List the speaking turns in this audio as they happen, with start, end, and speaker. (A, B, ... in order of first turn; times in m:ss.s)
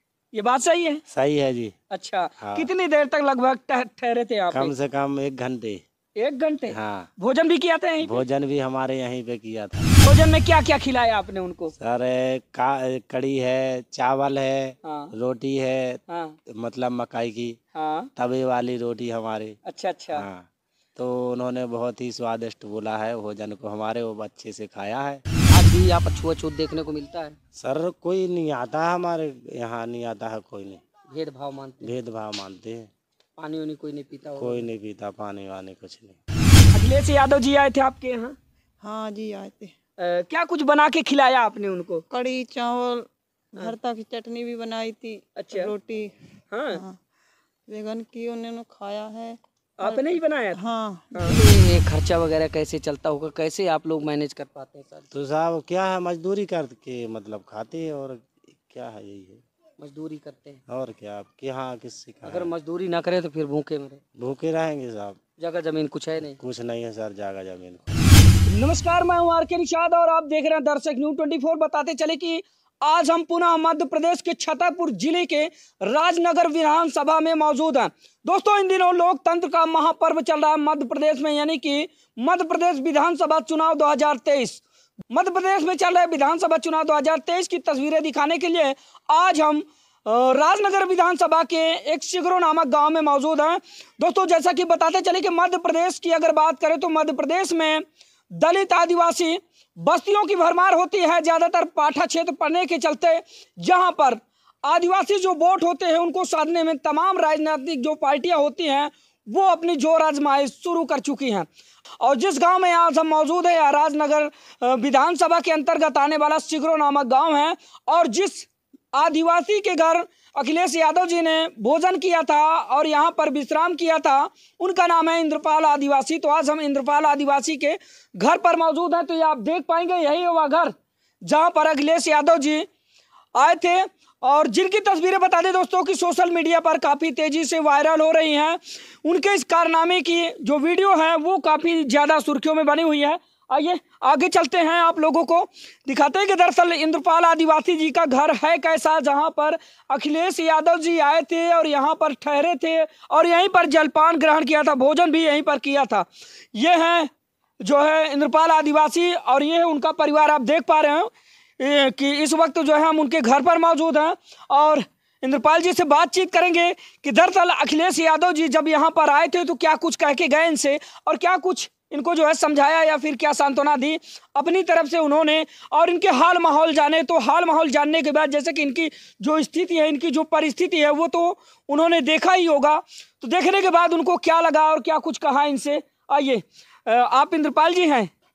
0:00.3-0:01.0 A
0:01.1-0:01.7 B
0:01.9-0:04.7 A
0:02.4-0:02.7 B
0:04.5-0:05.8 B
0:06.2-0:08.2 A
0:06.7-0:07.1 B
0:08.0-0:09.9 B
0:10.0-0:11.7 A
0:11.8-0:17.6 B
0:14.8-0:15.1 A
0:16.1-0:16.4 A
0:17.7-0:18.1 A
0:18.2-0:19.6 B
0:19.6-0:20.2 A
0:20.1-0:25.2 B
0:25.5-0:27.3 A
0:27.6-0:30.8 B
0:31.1-0:31.9 A
0:31.8-0:32.9 B
0:33.4-0:34.7 A
0:34.4-0:36.2 B
0:36.7-0:38.4 A
0:38.8-0:39.7 C
0:40.0-0:42.0 A
0:42.1-0:46.2 C
0:45.4-0:45.7 A
0:46.5-0:46.8 A
0:46.7-0:47.0 C
0:47.7-0:51.4 C
0:49.8-0:50.6 A
0:51.1-0:55.1 A
0:55.1-0:59.4 B
0:59.8-1:00.6 A
1:00.7-1:02.5 B
1:02.2-1:04.0 A
1:04.2-1:05.2 B
1:05.4-1:06.4 A
1:06.3-1:08.0 B
1:08.5-1:51.5 A
1:52.0-2:12.7 A
2:13.4-2:37.1 A
2:37.6-3:08.1 A